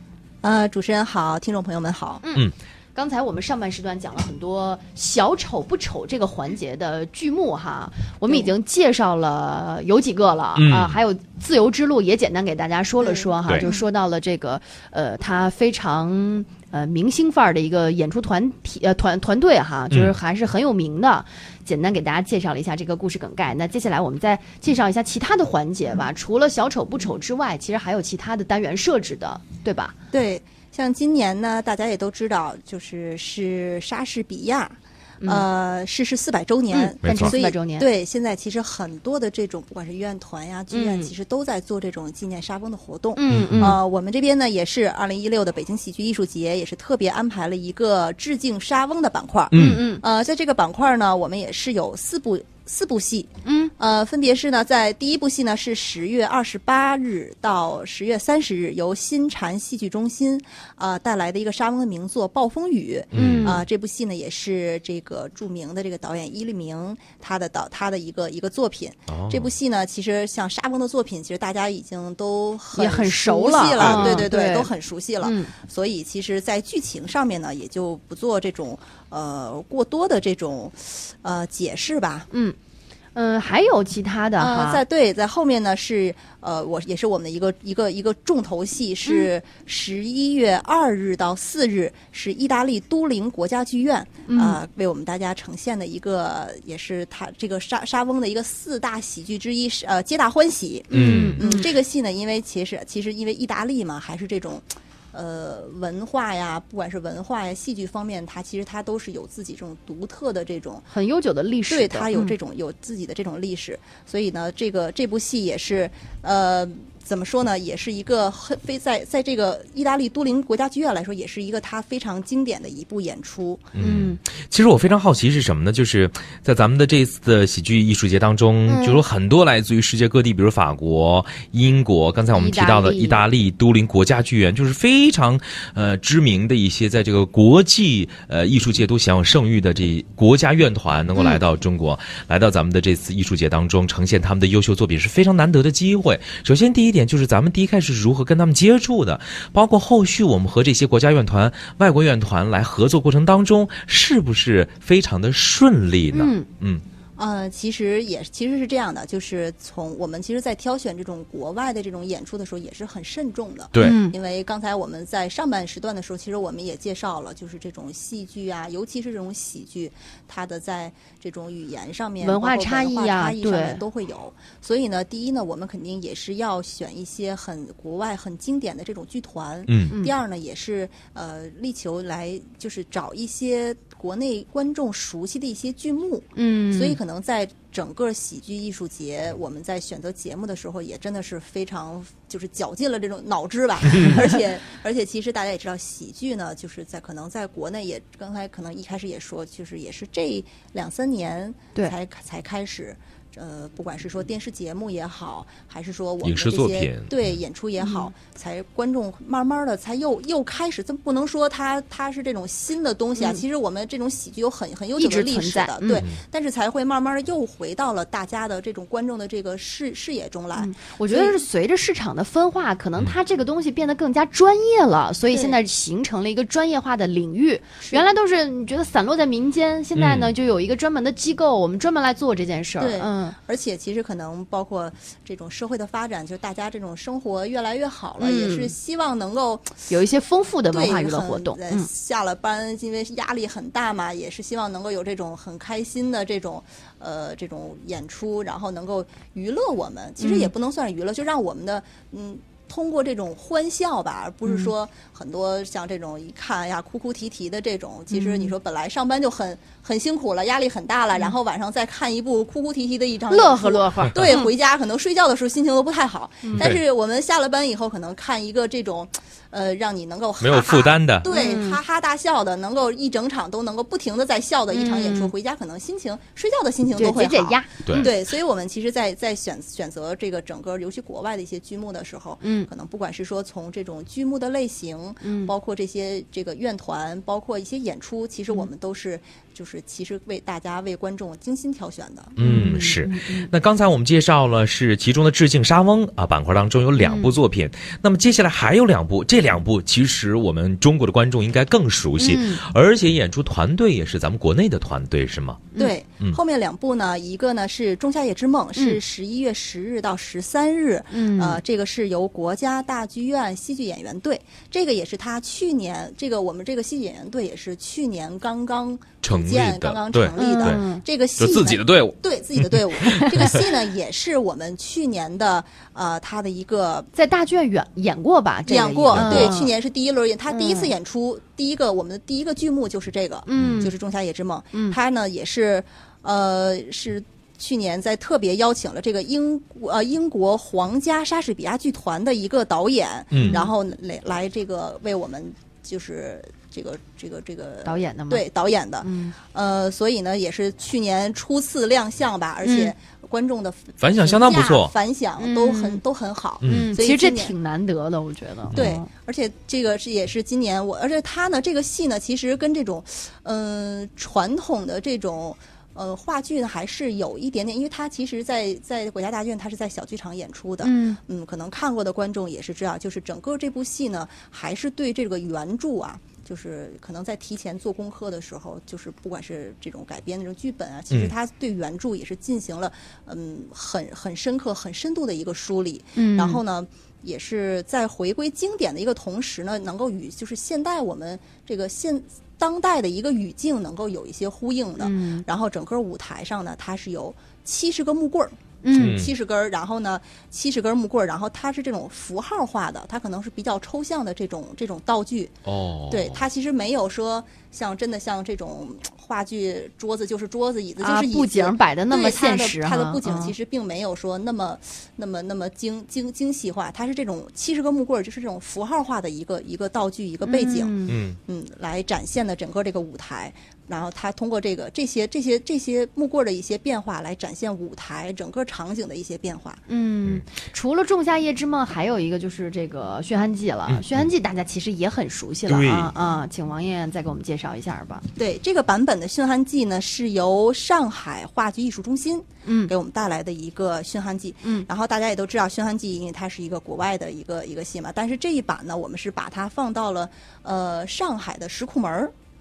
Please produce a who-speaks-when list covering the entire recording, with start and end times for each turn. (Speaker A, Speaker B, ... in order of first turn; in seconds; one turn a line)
Speaker A: 0.4-2.2
Speaker B: 2.2-29.9
Speaker C: 10.6-11.0
Speaker A: 13.0-13.8
Speaker A: 30.1-82.3
Speaker B: 36.7-37.9
Speaker C: 37.0-37.3
Speaker B: 40.7-41.1
Speaker B: 43.1-43.8
Speaker C: 43.3-43.8
Speaker C: 49.5-49.9
Speaker B: 49.6-50.0
Speaker B: 53.5-53.7
Speaker C: 63.1-63.6
Speaker B: 63.1-63.6
Speaker C: 69.1-69.5
Speaker B: 72.7-74.7
Speaker C: 73.8-74.3
Speaker B: 75.2-75.5
Speaker B: 83.2-84.8
Speaker A: 84.4-110.9
Speaker B: 94.3-94.6
Speaker B: 100.9-101.7
Speaker C: 100.9-101.4
Speaker B: 110.9-112.3
Speaker A: 111.7-123.7
Speaker C: 123.8-156.8
Speaker B: 123.8-124.2
Speaker B: 128.7-129.0
Speaker B: 132.3-133.2
Speaker B: 141.2-141.4
Speaker B: 156.1-156.5
Speaker A: 157.2-221.4
Speaker C: 163.7-164.0
Speaker B: 163.8-164.2
Speaker B: 172.2-173.8
Speaker C: 179.7-179.9
Speaker B: 186.4-187.0
Speaker C: 206.2-207.1
Speaker B: 207.8-208.1
Speaker B: 215.0-216.1
Speaker C: 215.9-216.2
Speaker B: 220.6-233.4
Speaker A: 225.3-225.6
Speaker C: 230.0-230.3
Speaker A: 232.8-239.8
Speaker B: 238.2-238.7
Speaker B: 239.9-241.9
Speaker A: 240.7-292.4
Speaker B: 250.2-250.5
Speaker B: 254.5-254.7
Speaker B: 258.1-258.5
Speaker B: 263.3-264.5
Speaker B: 266.4-266.8
Speaker C: 270.4-271.3
Speaker B: 271.3-271.8
Speaker B: 274.7-275.3
Speaker B: 277.0-278.2
Speaker B: 282.4-282.7
Speaker B: 285.2-285.5
Speaker C: 292.4-305.6
Speaker B: 292.4-293.5
Speaker B: 297.0-297.4
Speaker B: 302.2-302.6
Speaker A: 305.8-327.1
Speaker B: 311.1-311.6
Speaker C: 319.2-320.8
Speaker B: 320.4-321.0
Speaker C: 321.4-323.6
Speaker B: 323.2-323.6
Speaker B: 327.2-329.7
Speaker A: 328.7-357.5
Speaker C: 329.1-329.6
Speaker B: 330.5-330.9
Speaker B: 333.5-333.9
Speaker C: 333.6-333.9
Speaker B: 334.7-335.0
Speaker C: 343.3-343.6
Speaker B: 343.4-343.7
Speaker B: 347.9-348.5
Speaker B: 349.0-349.4
Speaker B: 352.6-352.9
Speaker C: 354.0-354.9
Speaker B: 355.4-356.0
Speaker C: 356.6-356.9
Speaker B: 356.6-359.0
Speaker A: 358.8-405.6
Speaker B: 370.8-371.2
Speaker B: 386.2-386.6
Speaker B: 395.0-395.4
Speaker B: 398.8-399.2
Speaker C: 398.9-399.3
Speaker C: 405.6-406.4
Speaker A: 406.1-429.8
Speaker B: 411.0-413.5
Speaker B: 420.4-421.2
Speaker C: 421.1-421.4
Speaker B: 429.9-438.3
Speaker C: 433.9-434.3
Speaker C: 435.7-436.1
Speaker A: 438.4-452.3
Speaker B: 442.7-442.9